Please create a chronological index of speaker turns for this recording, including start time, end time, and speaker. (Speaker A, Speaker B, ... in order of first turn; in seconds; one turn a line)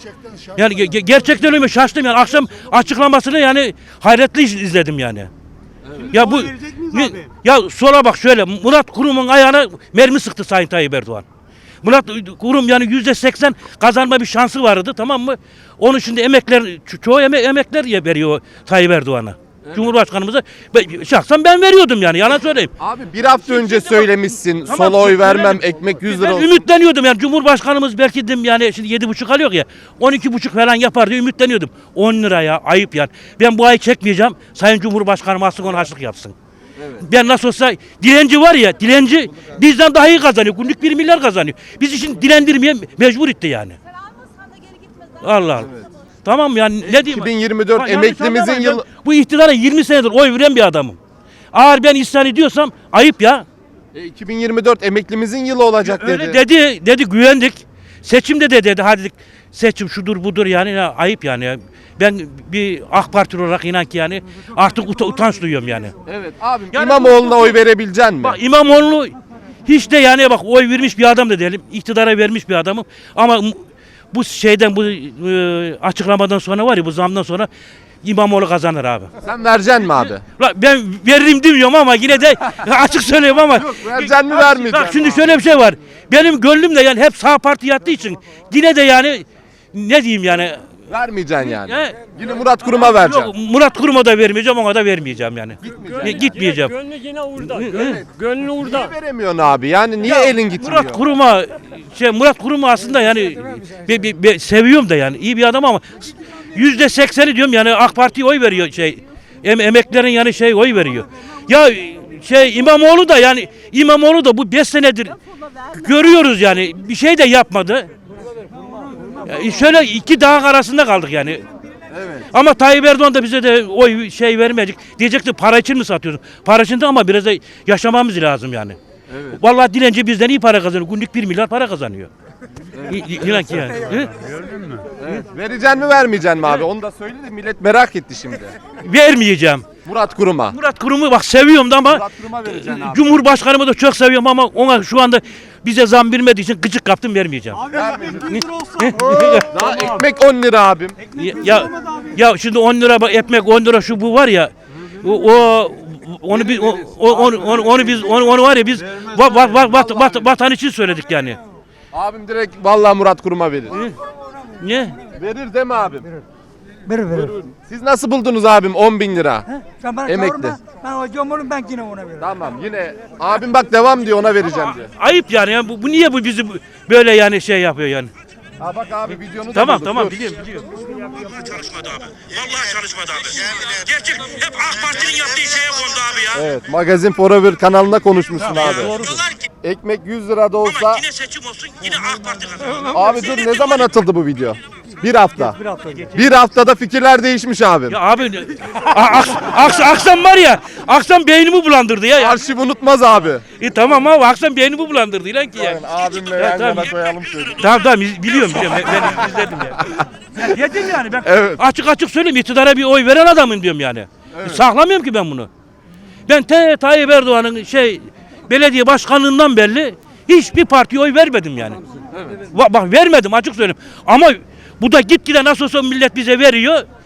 Speaker A: 0.4-5.3
Speaker A: 6.0-11.2
Speaker A: 11.8-22.7
Speaker B: 22.8-26.6
Speaker A: 23.6-24.1
Speaker A: 24.7-36.4
Speaker B: 36.8-37.1
Speaker A: 37.0-43.8
Speaker A: 45.2-51.0
Speaker B: 45.5-45.9
Speaker B: 46.8-48.9
Speaker A: 51.5-53.5
Speaker B: 53.9-56.4
Speaker A: 55.8-66.0
Speaker B: 66.1-68.4
Speaker A: 66.7-67.6
Speaker A: 68.2-69.2
Speaker A: 69.7-77.5
Speaker A: 78.0-79.1
Speaker B: 79.2-80.2
Speaker A: 80.0-90.7
Speaker B: 83.5-85.4
Speaker B: 90.9-93.3
Speaker A: 91.4-92.1
Speaker A: 92.7-96.8
Speaker B: 95.6-96.3
Speaker C: 96.6-98.8
Speaker A: 97.4-98.0
Speaker B: 98.6-101.0
Speaker A: 100.0-115.2
Speaker A: 115.7-117.9
Speaker A: 119.2-121.4
Speaker B: 121.9-122.3
Speaker A: 122.3-128.8
Speaker B: 129.1-129.4
Speaker A: 129.3-132.1
Speaker B: 132.8-133.1
Speaker A: 132.8-134.3
Speaker B: 135.0-138.6
Speaker A: 138.8-139.7
Speaker B: 139.9-140.6
Speaker A: 140.5-149.5
Speaker B: 141.9-143.1
Speaker B: 147.7-148.4
Speaker B: 149.5-151.0
Speaker A: 151.1-161.4
Speaker B: 156.4-158.1
Speaker B: 159.0-160.3
Speaker B: 161.9-163.8
Speaker A: 164.6-165.0
Speaker B: 165.1-166.2
Speaker D: 166.9-167.2
Speaker B: 167.1-169.5
Speaker D: 169.8-170.2
Speaker B: 170.0-170.6
Speaker D: 170.7-172.2
Speaker B: 172.2-174.9
Speaker A: 174.9-178.1
Speaker B: 178.6-180.4
Speaker A: 179.5-186.4
Speaker B: 186.3-189.0
Speaker A: 188.4-189.5
Speaker B: 189.6-191.0
Speaker A: 190.6-193.9
Speaker B: 192.9-198.0
Speaker D: 195.6-196.1
Speaker A: 197.9-202.4
Speaker B: 202.2-203.4
Speaker A: 203.6-207.0
Speaker B: 205.6-207.8
Speaker A: 207.6-215.5
Speaker B: 211.1-211.6
Speaker B: 214.4-214.6
Speaker A: 216.3-221.8
Speaker A: 222.4-226.8